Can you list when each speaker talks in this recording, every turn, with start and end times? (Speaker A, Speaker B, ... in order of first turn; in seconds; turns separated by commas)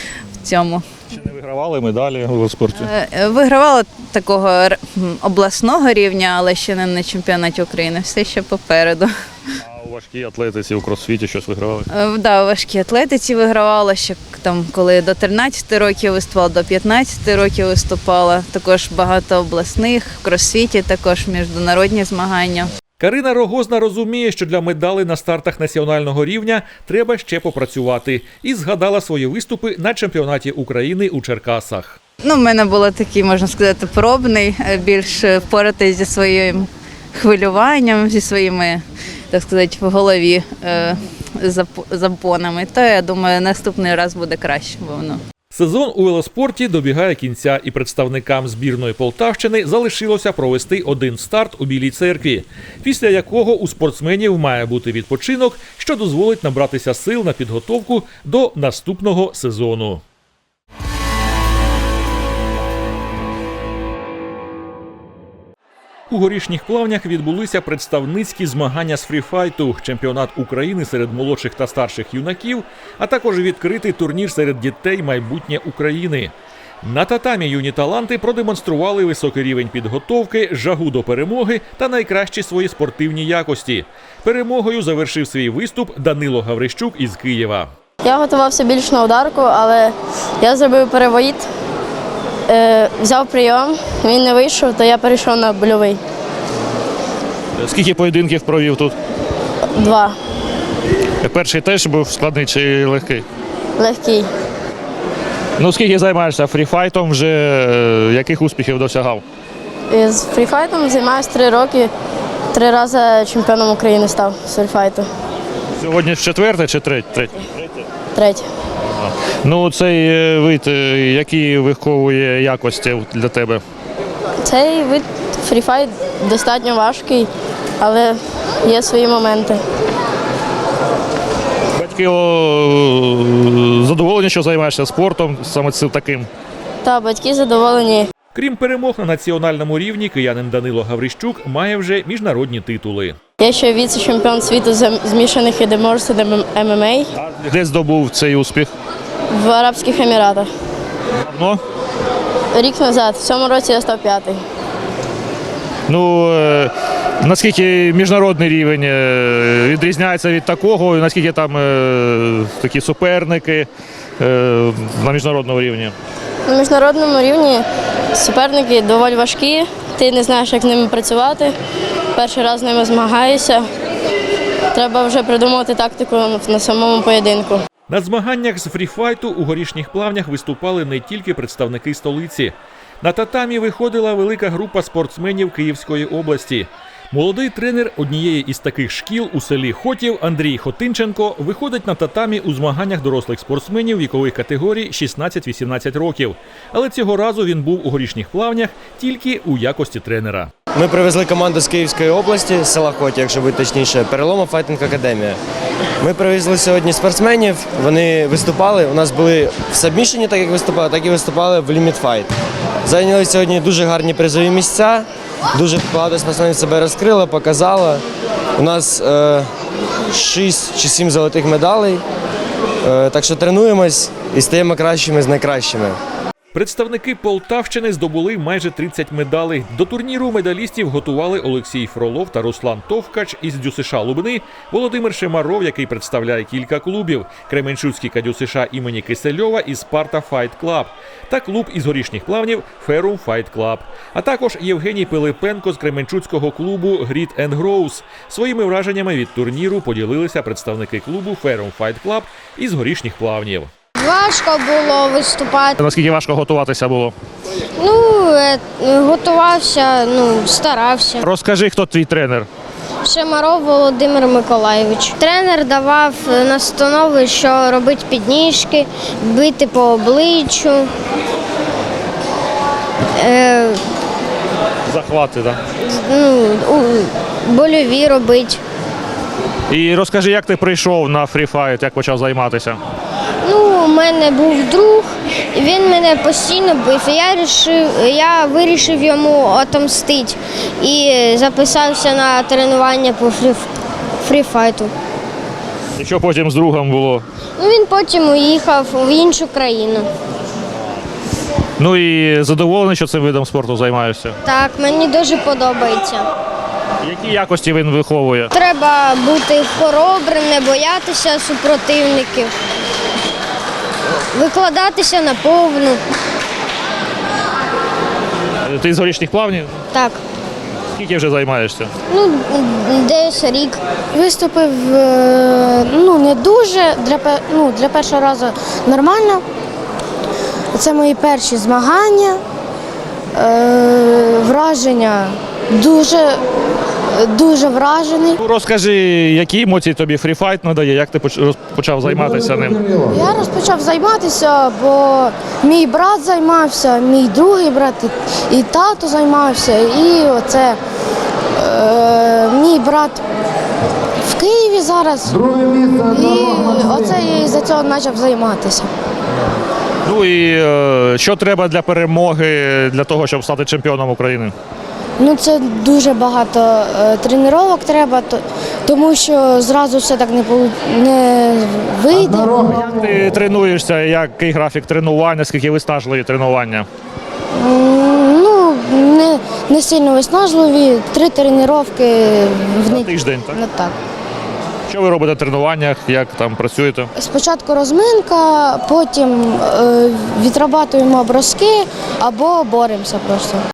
Speaker A: 0.4-0.9, Speaker B: 1.1-2.9, Speaker A: 2.8-9.1, Speaker B: 9.6-11.9, Speaker A: 11.9-22.7, Speaker C: 23.0-32.0, Speaker A: 32.2-45.2, Speaker C: 45.5-60.0, Speaker C: 66.1-87.7, Speaker D: 88.0-91.5, Speaker D: 92.5-96.0, Speaker B: 97.6-99.0, Speaker D: 99.7-100.2, Speaker B: 101.2-103.2, Speaker D: 103.8-104.3, Speaker B: 105.6-109.2, Speaker D: 109.9-111.9, Speaker D: 112.5-115.1, Speaker B: 115.8-117.9, Speaker D: 118.2-118.5, Speaker B: 118.9-123.6, Speaker D: 124.4-127.3, Speaker D: 127.8-129.6, Speaker B: 131.8-136.3, Speaker D: 136.8-138.1, Speaker C: 138.3-143.2, Speaker D: 143.4-147.1, Speaker B: 147.2-148.7, Speaker D: 149.3-150.5, Speaker B: 151.2-151.6, Speaker D: 152.5-154.4, Speaker B: 155.9-163.7, Speaker B: 164.2-165.9, Speaker D: 166.5-171.6, Speaker D: 172.2-173.7, Speaker D: 174.7-177.6, Speaker C: 177.9-200.5, Speaker E: 200.7-205.4, Speaker E: 206.0-212.3, Speaker E: 212.8-218.0, Speaker E: 218.6-219.5, Speaker E: 220.1-222.0, Speaker E: 222.8-226.0, Speaker C: 226.5-253.7, Speaker F: 254.0-255.8, Speaker B: 255.8-257.1, Speaker F: 257.8-261.2, Speaker B: 261.2-262.5, Speaker F: 263.0-270.9, Speaker F: 273.2-273.8, Speaker B: 274.9-275.6, Speaker F: 275.8-278.6, Speaker B: 279.7-282.8, Speaker F: 283.4-293.7, Speaker F: 294.2-294.9, Speaker B: 296.0-297.2, Speaker F: 297.6-300.1, Speaker B: 301.8-304.4, Speaker F: 304.4-306.3, Speaker B: 307.0-308.5, Speaker F: 308.5-312.5, Speaker F: 314.2-316.0, Speaker B: 318.6-319.8, Speaker F: 319.9-320.2, Speaker B: 320.9-321.9, Speaker F: 322.1-323.8, Speaker G: 324.1-329.4, Speaker G: 330.7-332.4, Speaker G: 333.4-336.4, Speaker G: 337.1-338.4, Speaker B: 338.4-342.9, Speaker G: 343.1-350.8, Speaker G: 351.6-353.2, Speaker G: 354.2-358.9, Speaker B: 360.1-364.5, Speaker G: 365.2-372.7, Speaker B: 372.6-376.9, Speaker G: 377.6-383.9, Speaker B: 382.9-383.6, Speaker B: 384.9-387.1, Speaker G: 387.2-393.6